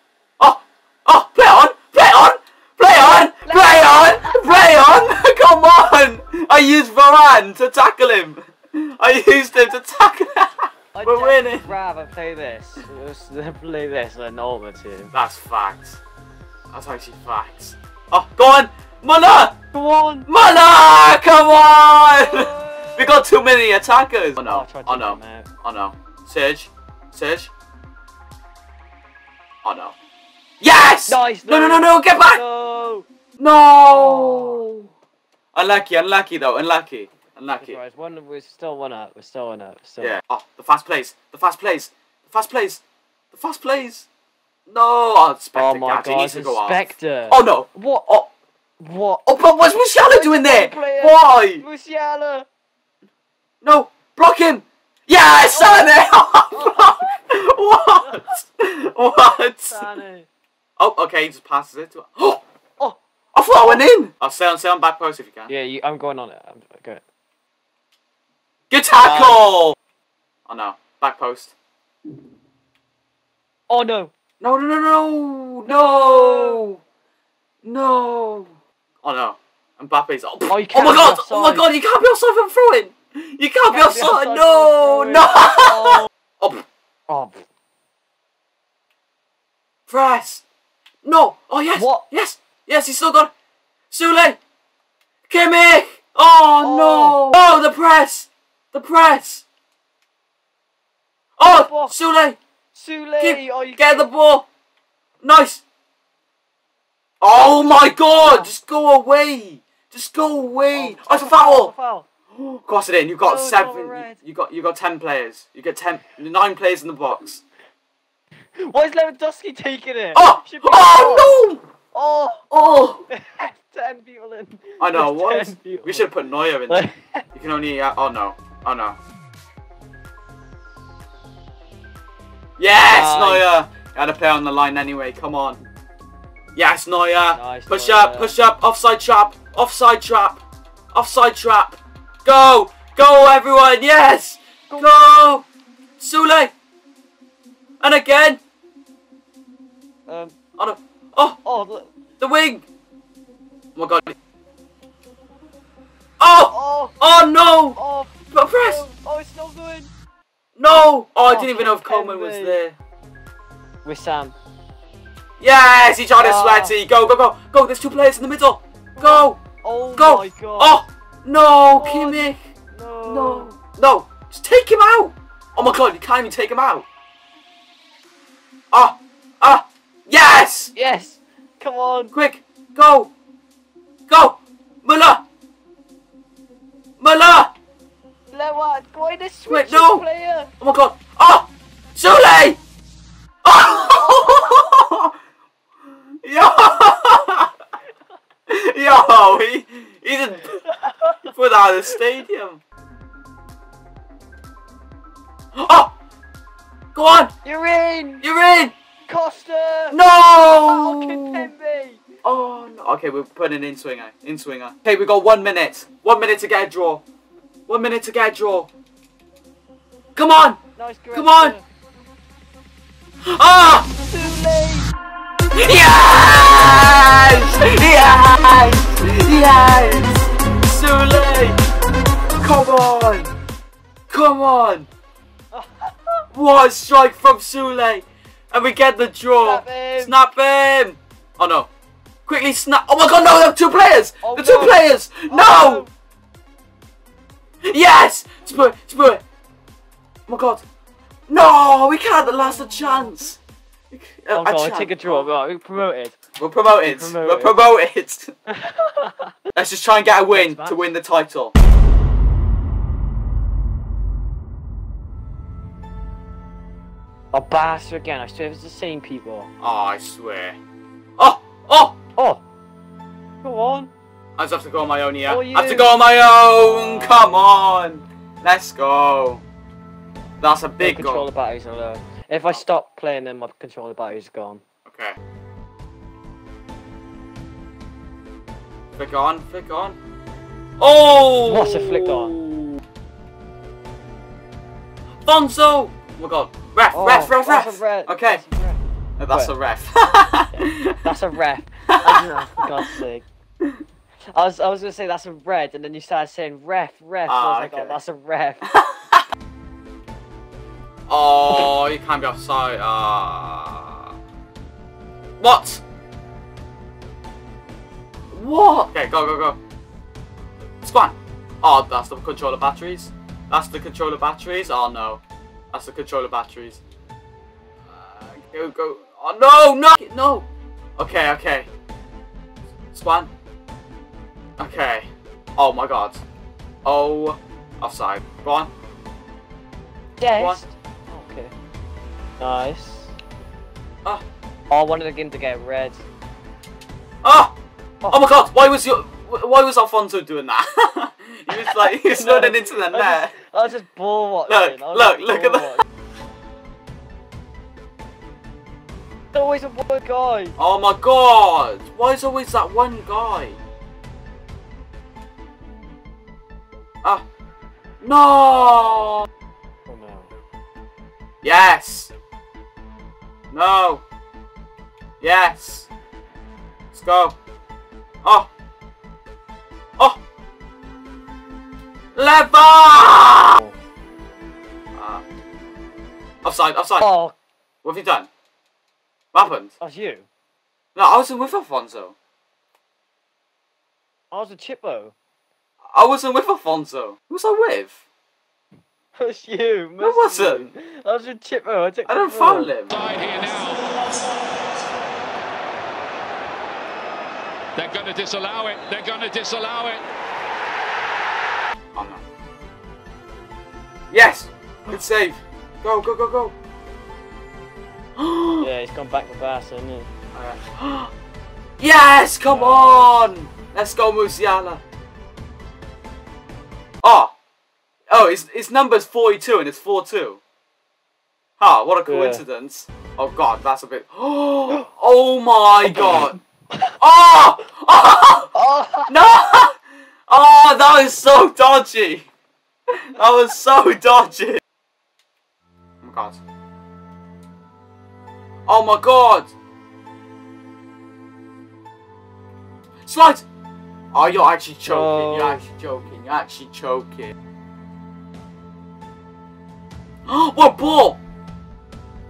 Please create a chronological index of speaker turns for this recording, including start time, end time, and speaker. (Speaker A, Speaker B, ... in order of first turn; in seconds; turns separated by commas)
Speaker A: 0.4-11.7, Speaker B: 3.0-5.0, Speaker B: 10.9-15.1, Speaker A: 15.1-16.0, Speaker A: 16.7-19.5, Speaker B: 19.7-20.3, Speaker A: 20.3-27.5, Speaker B: 22.0-23.2, Speaker B: 24.4-25.5, Speaker A: 29.6-29.9, Speaker A: 30.6-32.4, Speaker B: 31.1-33.1, Speaker A: 33.4-34.9, Speaker B: 33.9-34.6, Speaker A: 35.5-37.8, Speaker B: 37.6-40.2, Speaker A: 40.0-42.8, Speaker A: 43.3-44.1, Speaker A: 44.7-48.3, Speaker B: 45.6-48.1, Speaker B: 48.8-49.3, Speaker A: 49.3-51.6, Speaker B: 50.0-52.5, Speaker A: 53.6-59.9, Speaker B: 55.4-57.1, Speaker B: 58.0-58.3, Speaker B: 59.7-60.3, Speaker A: 60.8-62.4, Speaker A: 63.3-65.5, Speaker B: 65.5-67.0, Speaker A: 68.7-69.8, Speaker B: 69.0-69.4, Speaker A: 70.5-71.5, Speaker B: 73.7-74.1, Speaker A: 74.4-76.8, Speaker B: 75.7-76.6, Speaker A: 77.6-86.7, Speaker B: 80.5-81.7, Speaker B: 83.7-86.1, Speaker B: 87.1-87.5, Speaker A: 89.9-90.4, Speaker A: 91.0-93.3, Speaker B: 91.7-92.0, Speaker A: 93.9-94.4, Speaker A: 95.3-99.5, Speaker B: 96.6-97.2, Speaker A: 101.4-102.4, Speaker B: 101.4-101.9, Speaker B: 102.7-104.1, Speaker A: 103.2-104.5, Speaker A: 105.2-105.6, Speaker A: 107.2-111.7, Speaker B: 108.1-108.5, Speaker B: 110.7-112.1, Speaker A: 112.3-117.4, Speaker B: 113.2-114.2, Speaker B: 118.6-121.4, Speaker A: 120.2-121.6, Speaker B: 121.9-122.5, Speaker A: 122.5-123.0, Speaker B: 123.1-126.1, Speaker A: 124.8-129.0, Speaker B: 126.7-127.3, Speaker A: 132.6-135.6, Speaker B: 132.8-133.5, Speaker A: 136.6-140.4, Speaker B: 137.3-138.3, Speaker A: 140.9-145.4, Speaker A: 146.0-146.5, Speaker A: 147.8-148.4, Speaker B: 150.1-150.4, Speaker A: 150.6-151.4, Speaker B: 151.4-151.9, Speaker A: 152.2-152.7, Speaker A: 153.8-154.2, Speaker A: 156.2-157.8, Speaker B: 156.5-157.0, Speaker B: 157.8-159.9, Speaker A: 158.3-158.8, Speaker A: 160.6-162.8, Speaker B: 161.2-162.6, Speaker B: 163.8-164.3, Speaker A: 165.4-169.4, Speaker B: 166.2-166.7, Speaker B: 169.0-170.8, Speaker A: 170.0-172.4, Speaker B: 171.8-173.5, Speaker A: 173.1-176.9, Speaker A: 178.7-180.7, Speaker B: 180.8-182.1, Speaker A: 182.1-183.1, Speaker A: 184.1-185.2, Speaker A: 187.0-187.5, Speaker B: 188.3-190.5, Speaker A: 189.5-190.0, Speaker A: 190.6-192.6, Speaker A: 193.4-195.1, Speaker A: 196.2-197.5, Speaker A: 198.5-200.6, Speaker B: 200.7-201.2, Speaker A: 201.2-202.6, Speaker A: 205.6-205.9, Speaker A: 206.9-207.3, Speaker B: 207.4-208.2, Speaker A: 208.2-208.7, Speaker B: 209.1-212.0, Speaker A: 209.9-211.4, Speaker A: 212.2-217.0, Speaker A: 217.7-218.7, Speaker A: 220.2-220.6, Speaker B: 220.8-221.6, Speaker A: 221.1-221.6, Speaker A: 223.3-223.9, Speaker B: 224.1-224.9, Speaker A: 225.6-231.6, Speaker B: 229.0-230.2, Speaker A: 232.4-233.3, Speaker A: 234.1-234.9, Speaker B: 235.5-236.2, Speaker A: 236.3-241.7, Speaker B: 239.4-240.2, Speaker A: 242.3-245.8, Speaker B: 244.2-245.9, Speaker A: 247.6-249.2, Speaker A: 250.3-250.6, Speaker A: 251.3-253.4, Speaker B: 252.5-253.0, Speaker A: 253.9-255.3, Speaker B: 254.3-256.2, Speaker A: 256.4-258.3, Speaker B: 256.9-257.6, Speaker B: 258.5-259.3, Speaker A: 259.5-261.5, Speaker B: 260.3-260.8, Speaker B: 267.3-269.5, Speaker A: 269.6-270.6, Speaker A: 271.2-271.9, Speaker B: 272.2-272.4, Speaker B: 273.4-273.9, Speaker A: 274.4-279.4, Speaker B: 275.3-275.9, Speaker B: 276.6-277.5, Speaker A: 280.4-281.3, Speaker B: 280.8-284.6, Speaker A: 284.9-285.2, Speaker A: 289.0-290.0, Speaker A: 290.8-292.8, Speaker B: 291.4-292.4, Speaker A: 295.3-298.4, Speaker B: 296.9-299.5, Speaker A: 299.2-301.1, Speaker B: 300.5-303.2, Speaker B: 304.3-308.6, Speaker A: 307.3-308.0, Speaker A: 308.7-309.2, Speaker A: 311.1-314.1, Speaker A: 315.4-315.8, Speaker A: 318.3-319.6, Speaker A: 320.8-325.2, Speaker A: 325.7-326.8, Speaker A: 327.9-330.5, Speaker A: 331.0-331.7, Speaker A: 332.9-333.3, Speaker A: 334.6-336.2, Speaker A: 336.9-338.7, Speaker B: 340.2-341.5, Speaker B: 342.4-343.1, Speaker B: 344.7-346.0, Speaker A: 347.2-347.5, Speaker A: 348.1-353.4, Speaker B: 351.5-355.8, Speaker A: 354.5-355.7, Speaker B: 359.3-360.6, Speaker A: 360.6-363.6, Speaker A: 368.0-369.3, Speaker B: 368.5-369.1, Speaker B: 369.9-370.3, Speaker A: 371.4-372.1, Speaker A: 373.5-374.0, Speaker A: 375.2-375.9, Speaker A: 376.9-377.4, Speaker A: 378.2-378.5, Speaker A: 382.1-383.6, Speaker A: 384.9-385.2, Speaker A: 386.4-387.1, Speaker B: 387.0-387.4, Speaker A: 387.8-388.3, Speaker A: 389.3-389.8, Speaker B: 389.8-390.3, Speaker A: 390.9-392.1, Speaker B: 394.3-395.1, Speaker A: 395.9-398.0, Speaker B: 399.2-402.7, Speaker A: 400.0-400.7, Speaker A: 402.1-403.1, Speaker C: 403.2-403.8, Speaker C: 407.8-410.0, Speaker A: 411.9-412.2, Speaker A: 414.1-416.5, Speaker A: 418.2-418.7, Speaker B: 418.6-420.1, Speaker A: 420.3-421.1, Speaker A: 421.8-424.8, Speaker B: 422.5-423.2, Speaker A: 427.0-427.3, Speaker A: 428.1-430.4, Speaker A: 431.6-436.4, Speaker B: 432.1-432.4, Speaker B: 435.9-436.2, Speaker A: 437.0-438.5, Speaker B: 438.5-439.2, Speaker A: 439.1-439.8, Speaker A: 440.3-442.3, Speaker A: 442.9-444.6, Speaker A: 446.0-446.4, Speaker A: 448.7-449.5, Speaker A: 453.1-453.4, Speaker A: 454.1-457.3, Speaker B: 454.8-455.6, Speaker A: 460.3-461.2